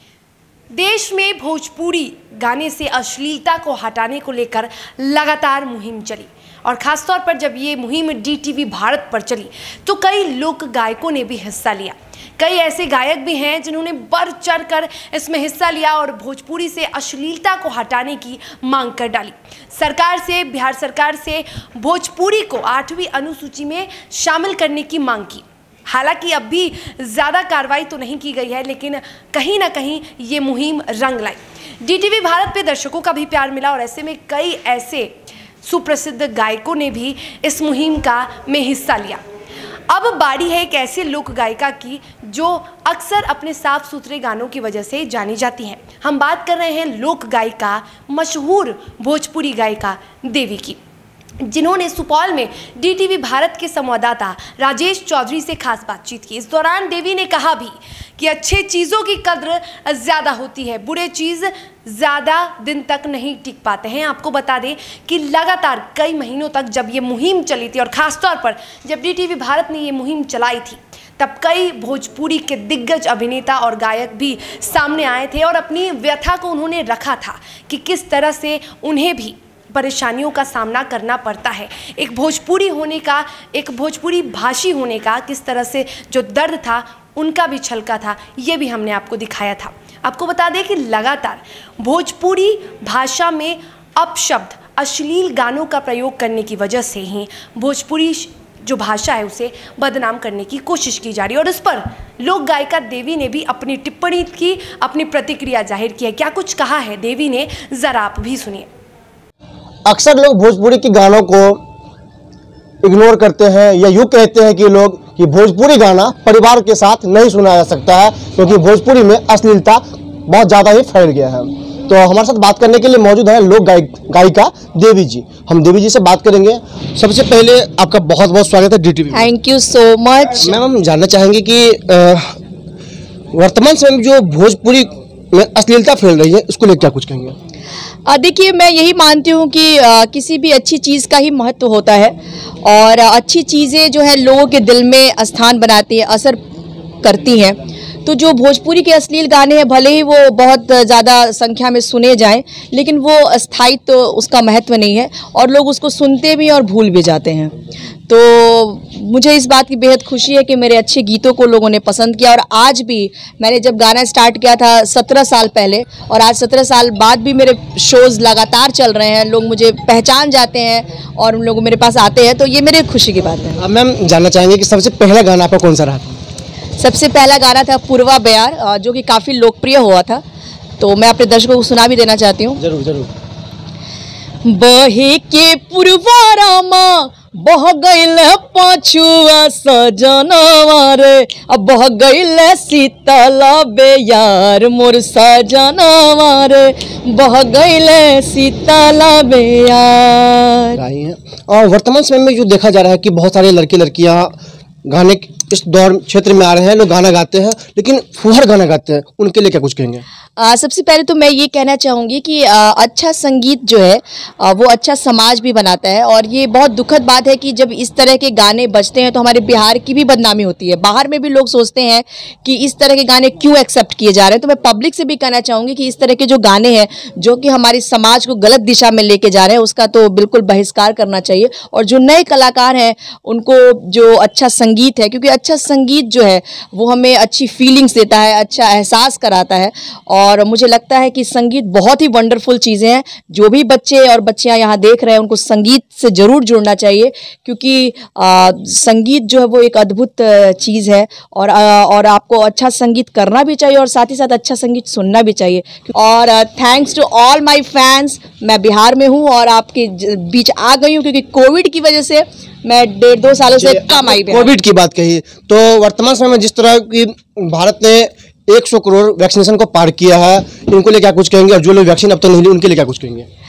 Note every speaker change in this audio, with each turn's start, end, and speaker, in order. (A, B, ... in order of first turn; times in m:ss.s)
0:00.7-0:39.2 A
0:39.9-0:50.8 A
0:51.4-1:48.7 A
1:49.9-1:51.6 B
1:52.8-2:09.3 B
2:09.1-2:10.6 C
2:10.4-2:12.3 B
2:13.3-2:17.4 B
2:18.1-2:26.4 C
2:27.0-2:37.6 C
2:38.1-2:53.6 C
2:53.6-2:56.2 B
2:56.8-3:00.2 C
3:00.8-3:02.6 C
3:02.6-3:03.1 B
3:04.4-3:20.8 C
3:20.8-3:24.4 B
3:24.9-3:30.0 B
3:30.4-4:24.5 C
4:23.6-4:33.3 B